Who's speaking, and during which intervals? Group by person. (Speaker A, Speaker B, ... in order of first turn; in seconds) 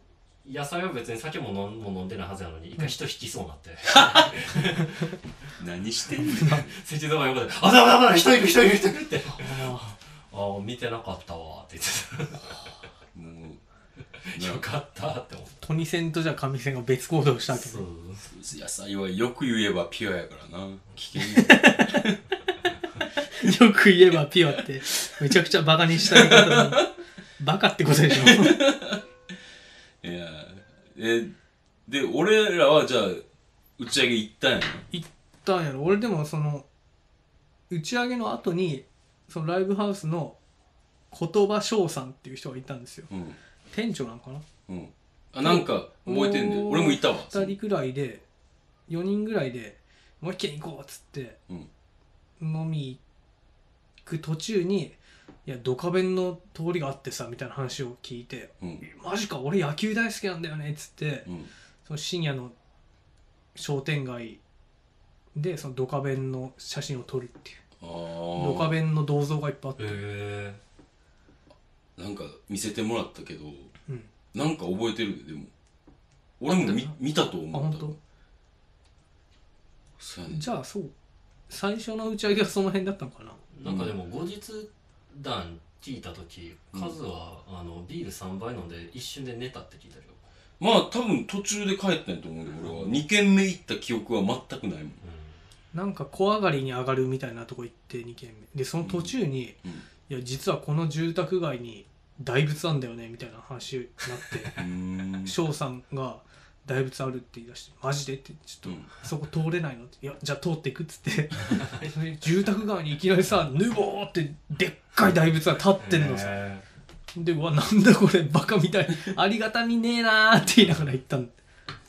Speaker A: 0.4-5.2, 6.4-12.7, 14.2-15.6, 17.5-18.3, 69.8-70.6, 83.5-90.2, 92.6-93.0, 95.0-95.5, 104.4-104.7, 111.5-111.9, 115.8-116.7, 120.6-120.8
Speaker B: 4.0-4.2, 5.6-6.7, 13.1-13.6, 14.3-14.7, 18.3-22.2, 26.0-26.9, 28.1-29.0, 30.0-31.4, 31.9-33.2, 33.8-34.9, 43.1-43.4, 44.7-47.5, 61.3-61.5, 67.8-68.8, 72.0-73.7, 74.3-75.5, 76.4-78.0, 80.0-80.5, 83.6-84.0, 90.6-95.0, 98.8-99.9, 104.6-105.4
Speaker C: 6.2-6.7, 9.4-9.9, 15.6-17.9, 21.2-22.2, 23.3-28.6, 34.9-36.7, 37.7-40.4, 41.1-43.1, 43.7-44.5, 45.4-48.2, 48.9-51.4, 52.4-53.0, 54.0-61.3, 61.9-62.5, 63.5-64.4, 65.3-67.6, 68.3-70.0, 76.5-76.9, 77.5-78.0, 80.3-80.9, 81.5-83.4, 95.7-99.6, 100.1-104.5, 105.2-116.4, 117.2-121.3